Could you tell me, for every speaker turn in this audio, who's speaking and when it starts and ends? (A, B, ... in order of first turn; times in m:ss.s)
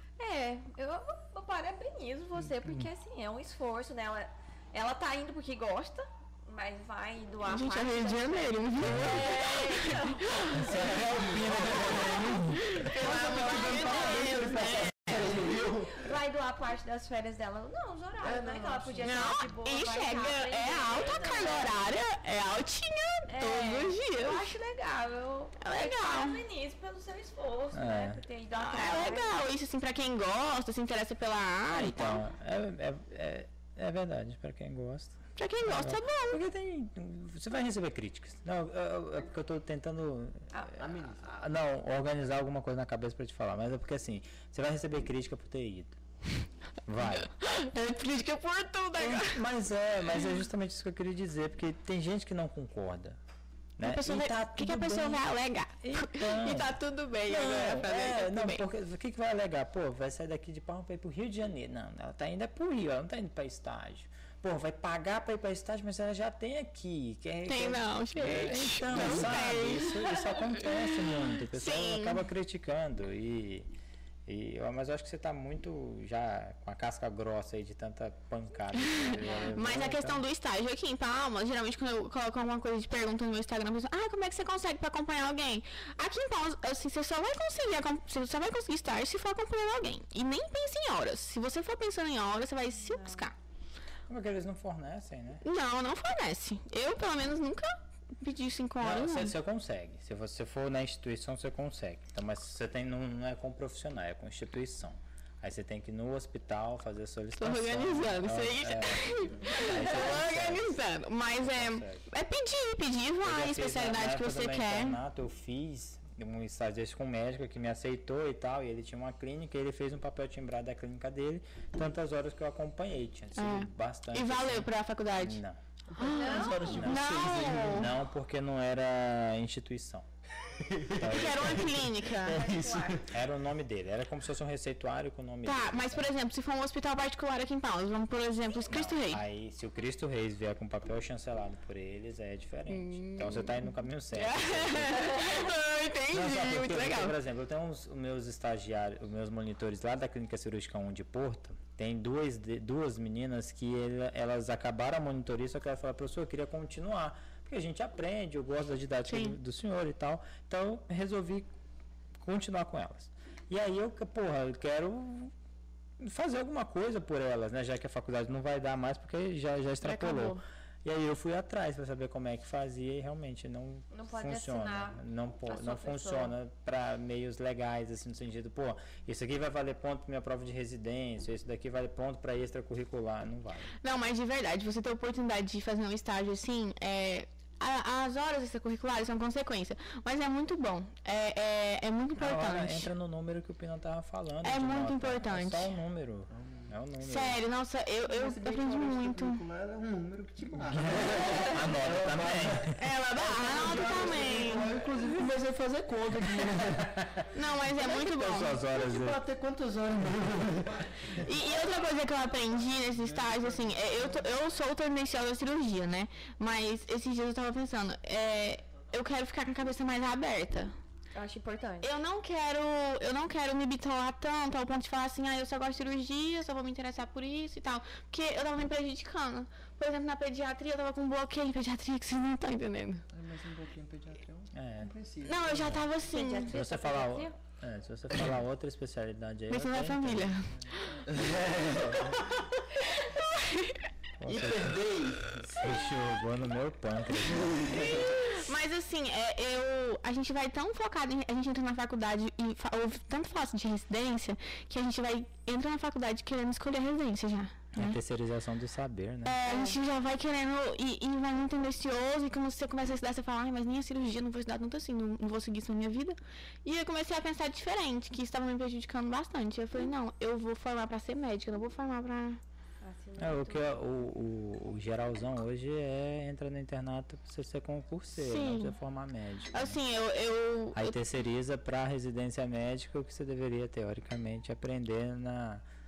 0:00.2-0:14.5 A
0:07.4-0:10.6 B
0:08.8-0:09.2 C
0:10.5-0:13.0 C
0:10.6-0:16.1 D
0:12.8-0:15.3 B
0:15.3-0:21.8 A
0:18.2-0:19.3 D
0:19.0-0:24.5 B
0:23.3-0:29.4 A
0:25.6-0:26.4 B
0:27.7-0:28.2 C
0:28.6-0:32.2 B
0:31.7-0:46.0 C
0:35.4-0:36.4 B
0:40.7-0:41.3 D
0:46.9-0:47.3 C
0:47.2-0:49.4 B
0:49.0-0:53.2 C
0:53.8-0:55.2 C
0:53.8-0:58.6 B
0:55.8-1:13.7 C
1:07.5-1:10.5 B
1:08.2-1:09.3 D
1:11.5-1:12.2 B
1:14.3-1:20.2 C
1:18.8-1:33.4 B
1:19.2-1:19.5 A
1:34.1-1:35.4 C
1:35.4-1:39.4 B
1:38.8-1:50.8 C
1:47.4-1:55.0 B
1:51.4-1:52.1 C
1:53.2-2:05.6 C
2:03.4-2:05.4 B
2:05.9-2:07.9 D
2:06.0-2:07.9 B
2:06.0-2:06.9 A
2:06.5-2:10.1 C
2:10.6-2:13.1 D
2:11.0-2:11.9 C
2:11.0-2:12.4 B
2:12.2-2:13.0 A
2:13.1-2:16.1 C
2:15.4-2:19.2 B
2:18.7-2:25.6 C
2:22.7-2:27.2 B
2:26.1-2:41.5 C
2:39.1-2:39.4 B
2:42.2-2:45.3 C
2:46.0-3:03.7 C
2:49.8-2:50.4 A
2:53.9-2:56.4 A
3:03.8-3:12.9 B
3:12.2-3:17.4 C
3:14.4-3:15.7 B
3:16.3-3:16.7 D
3:17.0-3:19.4 B
3:18.0-3:27.0 D
3:20.6-3:22.8 C
3:22.8-3:24.8 B
3:26.2-3:27.1 C
3:27.3-3:28.6 B
3:27.8-3:29.2 C
3:28.6-3:31.9 D
3:31.2-3:40.7 B
3:32.9-3:34.3 D
3:41.1-3:41.9 A
3:41.8-3:53.0 B
3:53.1-3:55.9 D
3:54.5-3:54.9 C
3:55.2-3:56.6 B
3:56.0-3:57.4 A
3:56.5-4:00.4 C
3:59.5-4:00.5 B
4:01.0-4:02.5 D
4:02.9-4:03.8 B
4:04.2-4:04.8 C
4:04.3-4:05.7 D
4:05.3-4:08.1 C
4:07.3-4:08.2 D
4:07.6-4:18.0 B
4:17.8-4:19.4 C
4:19.2-4:32.4 B
4:19.4-4:19.8 A
4:32.8-4:33.8 A
4:33.2-4:39.8 C
4:38.2-4:38.8 B
4:39.5-4:41.0 B
4:40.7-4:45.6 C